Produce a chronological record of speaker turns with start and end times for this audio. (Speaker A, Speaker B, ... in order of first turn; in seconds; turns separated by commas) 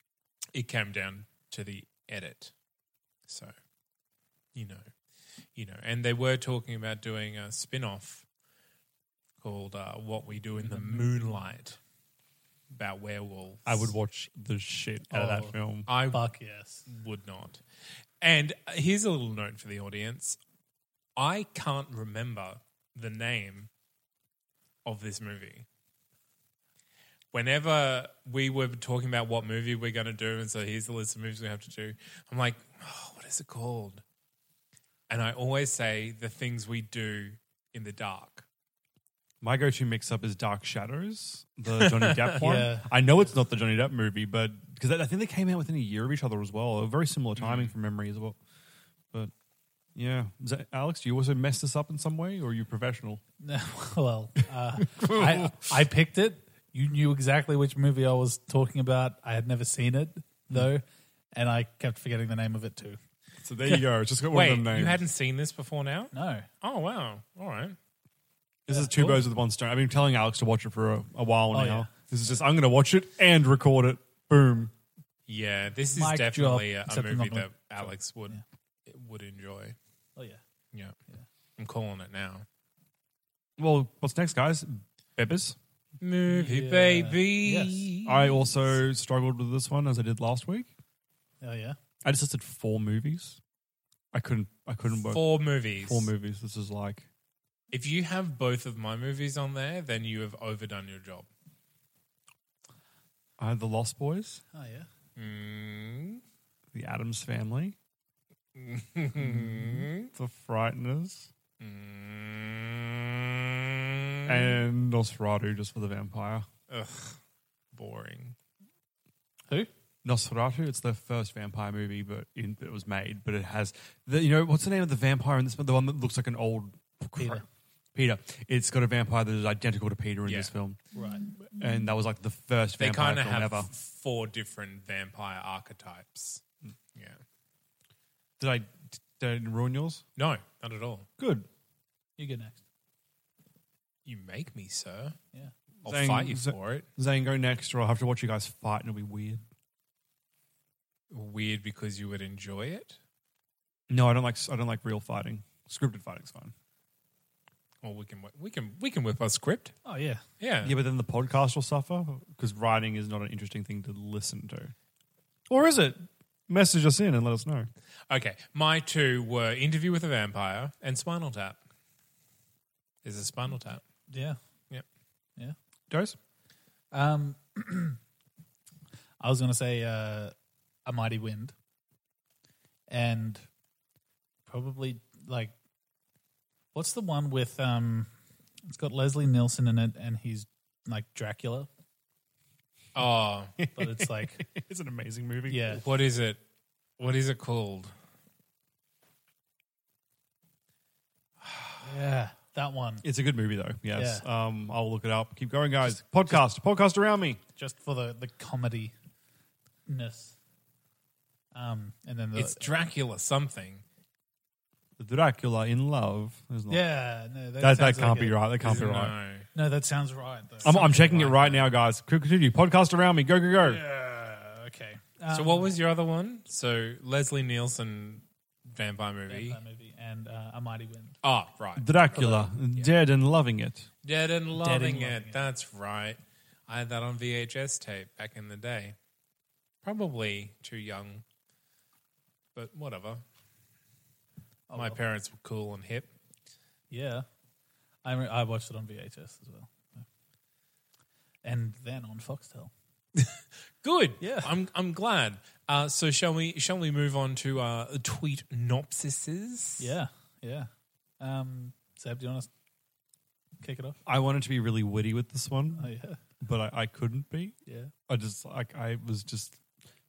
Speaker A: 0.5-2.5, Speaker A: 3.3-3.5, Speaker A: 4.5-4.8, Speaker A: 5.5-8.2, Speaker A: 9.4-11.8, Speaker B: 10.6-11.4, Speaker A: 12.7-13.9, Speaker C: 13.7-15.9, Speaker B: 15.1-15.5, Speaker A: 15.9-16.2, Speaker B: 16.1-16.9, Speaker A: 16.9-17.6, Speaker A: 18.2-20.4, Speaker A: 21.2-23.7, Speaker A: 24.9-25.7, Speaker A: 27.3-34.0, Speaker A: 35.1-38.5, Speaker C: 39.4-48.4, Speaker A: 41.8-42.4, Speaker B: 42.4-42.9, Speaker A: 47.4-47.7, Speaker C: 50.0-53.2, Speaker B: 53.4-63.0, Speaker C: 54.9-55.6, Speaker C: 63.4-65.0, Speaker A: 64.3-67.8, Speaker B: 66.1-66.5, Speaker C: 68.7-74.7, Speaker B: 68.7-69.2, Speaker B: 71.5-71.9, Speaker A: 75.3-79.8, Speaker B: 75.9-78.4, Speaker A: 81.6-82.5, Speaker C: 83.6-85.6, Speaker A: 86.0-88.4, Speaker B: 86.3-87.9, Speaker C: 88.0-90.7, Speaker B: 91.4-91.8, Speaker C: 92.0-93.4, Speaker C: 94.1-97.1, Speaker A: 95.0-96.1, Speaker A: 97.7-101.3, Speaker C: 103.4-104.4, Speaker B: 104.5-104.9, Speaker A: 105.2-106.2, Speaker C: 106.7-107.8, Speaker A: 108.6-110.1, Speaker C: 110.1-111.3, Speaker A: 111.6-114.5, Speaker C: 114.3-116.5, Speaker A: 116.7-117.2, Speaker A: 117.7-118.3, Speaker C: 120.0-130.8, Speaker B: 127.2-127.4, Speaker A: 130.3-130.5, Speaker B: 130.9-131.3, Speaker C: 131.4-133.7, Speaker A: 132.8-136.4, Speaker C: 138.4-140.0, Speaker A: 140.2-141.1, Speaker C: 141.2-141.5, Speaker B: 142.2-142.6, Speaker A: 144.1-145.2, Speaker C: 145.8-149.4, Speaker A: 145.8-146.9, Speaker A: 151.1-153.0, Speaker C: 153.9-156.5, Speaker A: 157.8-159.8, Speaker B: 159.8-160.2, Speaker A: 160.4-160.8, Speaker C: 160.6-164.7, Speaker C: 165.5-167.7, Speaker A: 168.1-171.6, Speaker A: 173.0-173.8, Speaker B: 174.1-174.4, Speaker C: 175.9-176.2, Speaker B: 176.9-178.0, Speaker B: 179.2-180.3, Speaker B: 180.8-181.5, Speaker B: 182.9-183.4, Speaker B: 184.5-185.6, Speaker B: 186.7-188.1, Speaker B: 188.7-191.7, Speaker A: 192.9-193.6, Speaker C: 193.6-195.8, Speaker B: 193.8-194.4, Speaker B: 195.5-195.8, Speaker A: 195.7-196.4, Speaker A: 197.0-197.9, Speaker A: 201.4-201.8, Speaker B: 201.8-203.0, Speaker C: 203.0-207.4, Speaker B: 203.9-204.2, Speaker B: 207.6-208.9, Speaker B: 209.9-210.4, Speaker B: 211.5-212.7, Speaker A: 212.4-213.8, Speaker C: 215.0-216.8, Speaker B: 216.7-218.4, Speaker C: 217.6-219.1, Speaker A: 218.6-219.5, Speaker B: 219.5-221.7, Speaker C: 220.6-223.8, Speaker B: 223.6-225.7, Speaker A: 225.3-229.6, Speaker B: 229.3-231.2, Speaker A: 231.2-232.9, Speaker C: 231.8-233.9, Speaker A: 234.0-238.9, Speaker B: 234.5-235.5, Speaker A: 239.8-241.2, Speaker A: 242.6-243.2, Speaker B: 244.7-245.0, Speaker A: 244.7-246.1, Speaker B: 246.9-247.3, Speaker B: 248.0-250.1, Speaker B: 251.4-252.7, Speaker A: 253.8-259.9, Speaker B: 254.2-254.5, Speaker B: 259.8-260.7, Speaker B: 261.2-262.5, Speaker B: 263.6-264.0, Speaker C: 264.1-265.9, Speaker B: 265.8-266.2, Speaker C: 266.4-267.6, Speaker B: 267.7-267.9, Speaker C: 268.1-269.6